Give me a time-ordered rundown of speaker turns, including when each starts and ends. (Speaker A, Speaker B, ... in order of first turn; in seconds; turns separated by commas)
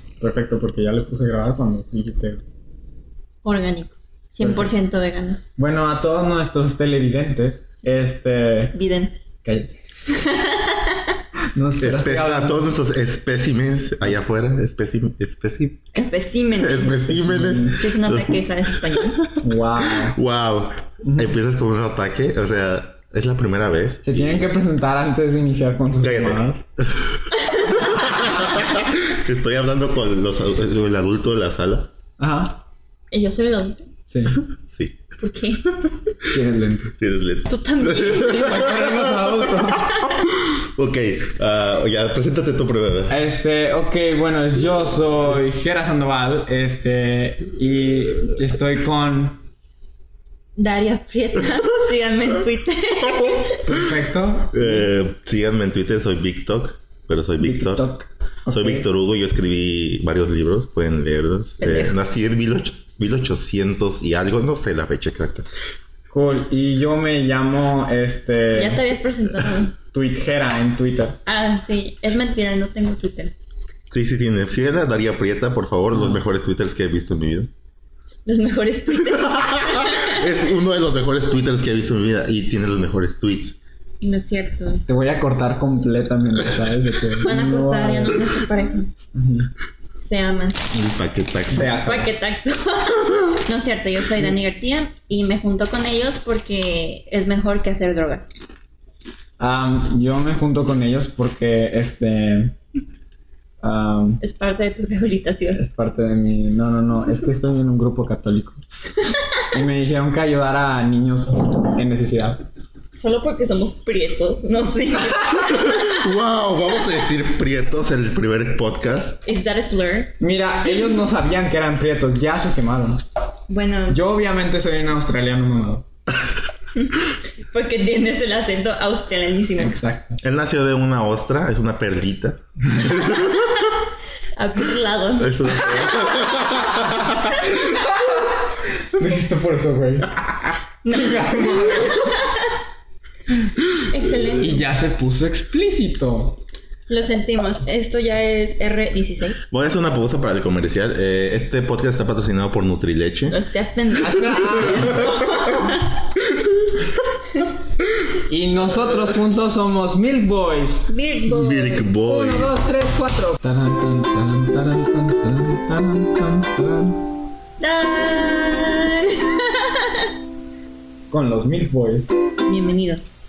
Speaker A: 0.2-2.4, Speaker B: 3.4-5.4, Speaker A: 4.4-4.7, Speaker A: 5.6-8.8, Speaker B: 8.7-9.3, Speaker A: 9.4-9.7, Speaker B: 10.1-11.0, Speaker A: 11.5-12.7, Speaker C: 11.8-15.9, Speaker B: 15.9-17.0, Speaker C: 16.6-24.4, Speaker A: 17.1-17.8, Speaker B: 17.7-19.2, Speaker A: 19.4-20.2, Speaker A: 21.0-21.3, Speaker A: 24.0-26.6, Speaker C: 26.0-31.9, Speaker B: 27.5-27.8, Speaker A: 32.2-32.6, Speaker B: 33.1-33.9, Speaker A: 34.1-34.4, Speaker C: 34.5-35.0, Speaker B: 35.2-35.8, Speaker A: 36.2-37.0, Speaker C: 37.0-39.3, Speaker B: 37.5-38.6, Speaker A: 38.1-40.0, Speaker C: 40.3-43.2, Speaker A: 43.1-49.4, Speaker B: 50.6-53.6, Speaker A: 53.7-54.9, Speaker C: 54.5-57.8, Speaker A: 57.4-58.8, Speaker C: 58.5-65.4, Speaker B: 61.6-61.9, Speaker A: 66.1-68.8, Speaker B: 68.5-69.8, Speaker A: 69.9-71.2, Speaker B: 71.2-73.3, Speaker C: 73.9-77.5, Speaker A: 75.9-76.2, Speaker B: 78.2-80.3, Speaker C: 79.2-83.6, Speaker B: 84.0-84.8, Speaker A: 84.9-88.3, Speaker B: 87.2-88.9, Speaker A: 89.1-89.5, Speaker B: 89.9-90.7, Speaker C: 90.7-91.9, Speaker A: 91.5-92.1, Speaker B: 91.9-98.3, Speaker A: 99.4-102.5, Speaker A: 103.6-104.2, Speaker B: 104.2-105.6, Speaker A: 105.5-108.6, Speaker A: 109.5-112.4, Speaker B: 113.0-115.9, Speaker C: 115.4-119.2, Speaker B: 119.2-120.1, Speaker A: 120.2-123.0, Speaker B: 123.5-124.0, Speaker A: 123.9-125.9, Speaker B: 126.8-129.8, Speaker A: 129.6-130.2, Speaker C: 130.2-133.7, Speaker B: 133.2-133.8, Speaker B: 134.3-136.5, Speaker C: 135.2-137.5, Speaker A: 137.7-138.4, Speaker A: 138.9-142.3, Speaker B: 140.8-142.5, Speaker B: 143.9-144.7, Speaker A: 144.3-146.4, Speaker B: 146.9-149.5, Speaker C: 149.5-153.4, Speaker B: 153.3-156.0, Speaker A: 154.0-155.0, Speaker A: 158.3-160.9, Speaker B: 160.9-161.9, Speaker C: 161.3-162.5, Speaker A: 162.0-167.0, Speaker B: 167.6-170.1, Speaker A: 171.1-172.1, Speaker B: 172.5-173.1